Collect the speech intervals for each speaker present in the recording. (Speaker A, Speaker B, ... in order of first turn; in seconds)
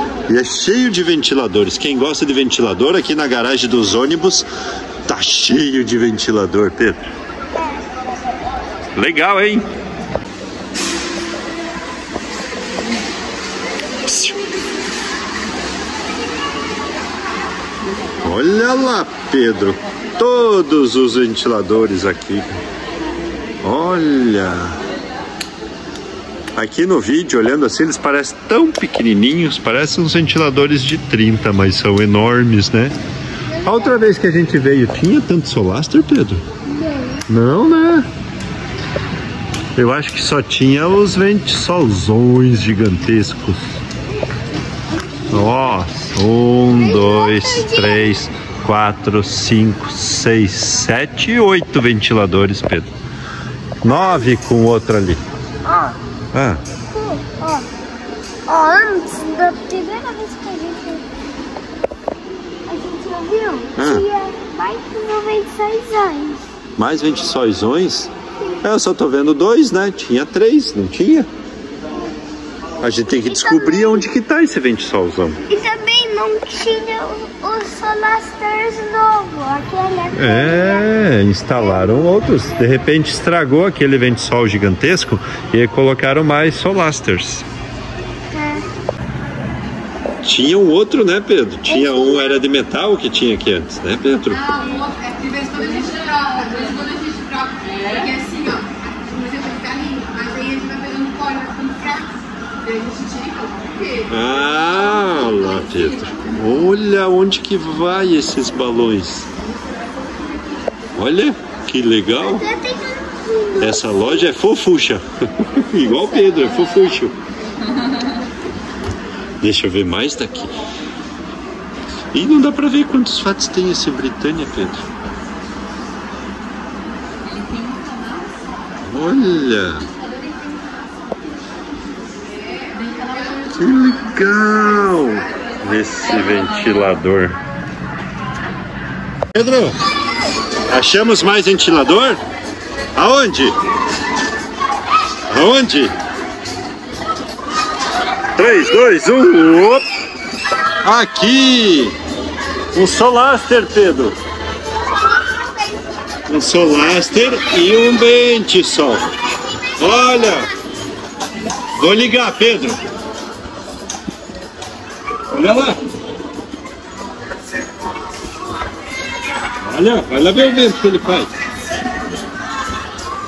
Speaker A: 0.2-4.5, 5.1-7.0, 8.9-9.7, 14.1-14.3, 18.2-22.6, 23.6-24.7, 26.6-33.0, 33.6-36.4, 37.3-38.1, 39.8-43.8, 45.3-52.9, 53.8-55.2, 56.3-56.6, 63.8-64.0, 66.8-68.1, 68.6-71.3, 72.8-75.4, 80.1-87.4, 90.2-94.6, 104.0-109.3, 111.0-112.4, 113.6-117.1, 119.4-120.5, 122.1-124.8, 128.8-129.8, 133.4-137.4, 139.3-139.8, 140.7-142.2, 142.9-143.5, 145.3-145.9, 148.3-149.8, 150.8-151.9, 152.7-154.1, 156.3-159.1, 159.8-160.5, 161.8-162.8, 165.3-165.8, 169.6-171.3
Speaker B: 33.5-34.0, 36.8-37.2, 46.8-48.2, 53.8-54.4, 55.6-56.0, 56.8-57.7, 58.5-61.0, 62.6-66.4, 72.8-74.1, 75.5-80.8, 81.5-82.2, 88.3-88.7, 91.7-92.4, 112.2-114.3, 155.2-155.8
Speaker C: 95.0-102.0, 102.9-103.7